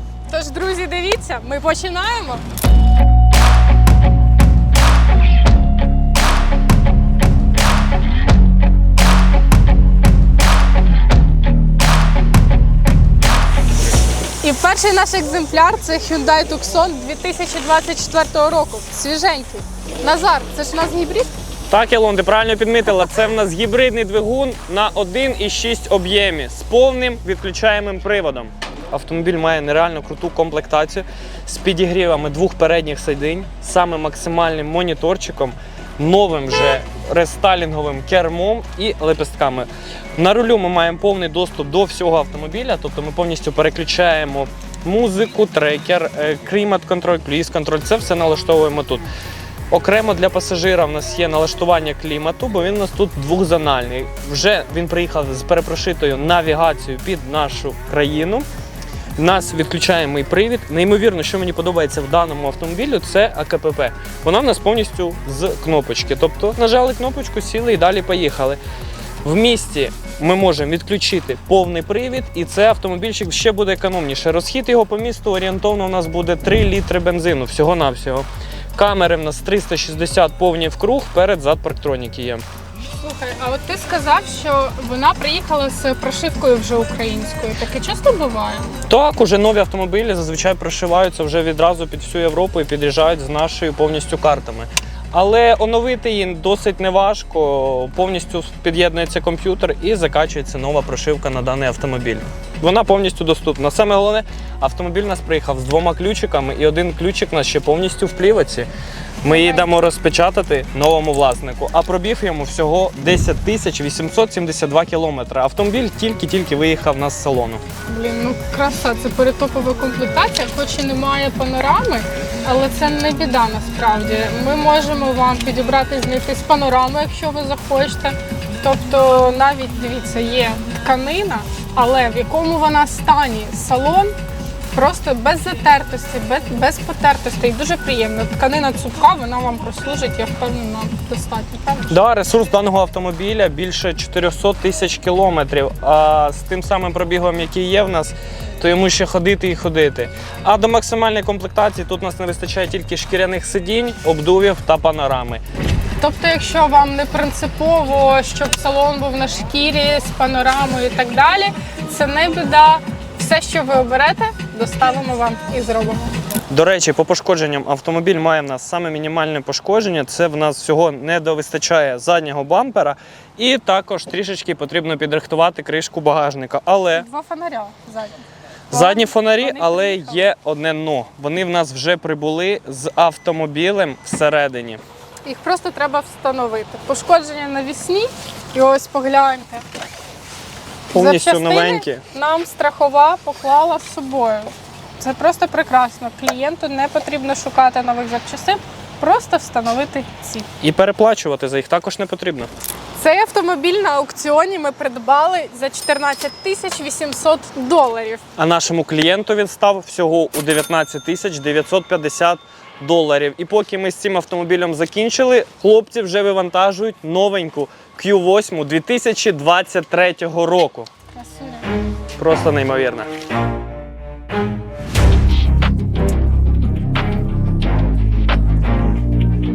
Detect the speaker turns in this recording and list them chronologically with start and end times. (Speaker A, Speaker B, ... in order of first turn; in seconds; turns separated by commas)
Speaker A: 0.3-2.4, Speaker A: 14.4-21.3, Speaker B: 21.7-49.1, Speaker B: 49.7-58.5, Speaker B: 59.2-68.6, Speaker B: 69.2-82.4, Speaker A: 82.8-88.7, Speaker B: 88.9-108.7, Speaker B: 109.2-117.6, Speaker A: 109.2-109.7, Speaker A: 117.9-134.1, Speaker A: 134.7-142.0, Speaker B: 141.9-155.4, Speaker A: 156.0-166.1, Speaker B: 166.5-177.1, Speaker A: 176.9-180.2, Speaker B: 178.7-184.8, Speaker A: 185.2-189.6, Speaker B: 190.9-192.0, Speaker A: 190.9-200.5, Speaker B: 200.6-202.5, Speaker A: 203.0-208.2, Speaker B: 208.4-220.9, Speaker A: 221.1-221.7, Speaker B: 222.2-223.1